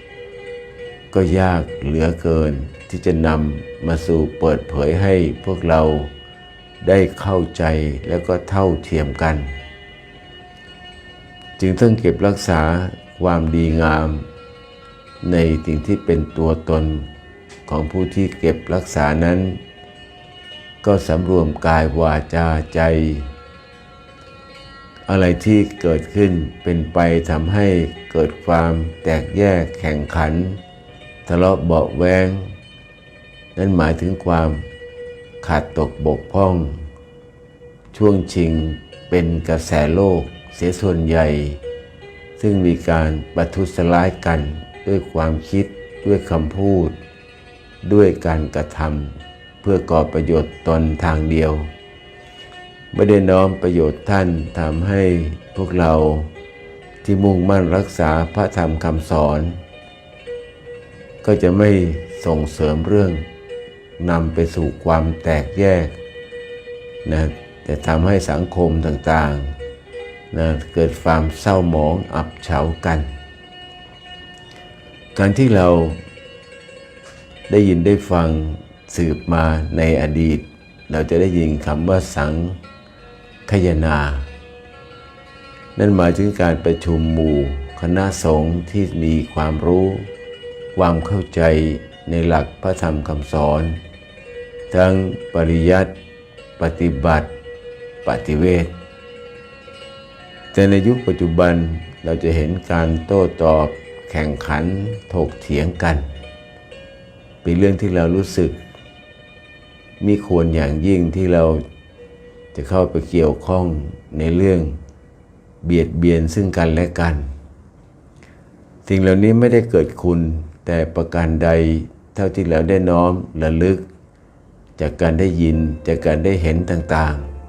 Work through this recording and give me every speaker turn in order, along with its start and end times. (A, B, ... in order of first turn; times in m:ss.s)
0:01.1-0:06.1 A
0:06.8-0:09.5 A
0:11.6-0:14.3 A
0:15.2-0:17.1 A
0:17.7-0:19.6 A
0:20.8-0:23.3 A
0:25.1-0:30.6 A
0:31.3-0:32.5 A
0:33.6-0:34.6 A
0:35.4-0:36.8 A
0:37.9-0:41.6 A
0:42.4-0:47.0 A
0:47.8-0:51.7 A
0:52.9-0:56.3 A
0:57.0-0:59.6 A
1:01.2-1:03.2 A
1:04.0-1:06.0 A
1:07.0-1:09.5 A
1:10.3-1:13.1 A
1:15.2-1:16.0 A
1:17.5-1:22.6 A
1:23.5-1:24.3 A
1:25.8-1:30.1 A
1:30.7-1:33.8 A
1:34.7-1:35.9 A
1:36.6-1:37.3 A
1:38.0-1:38.7 A
1:40.5-1:46.1 A
1:47.4-1:48.6 A
1:50.0-1:51.6 A
1:52.5-1:54.8 A
1:55.6-1:57.3 A
1:58.9-2:03.9 A
2:04.8-2:07.3 A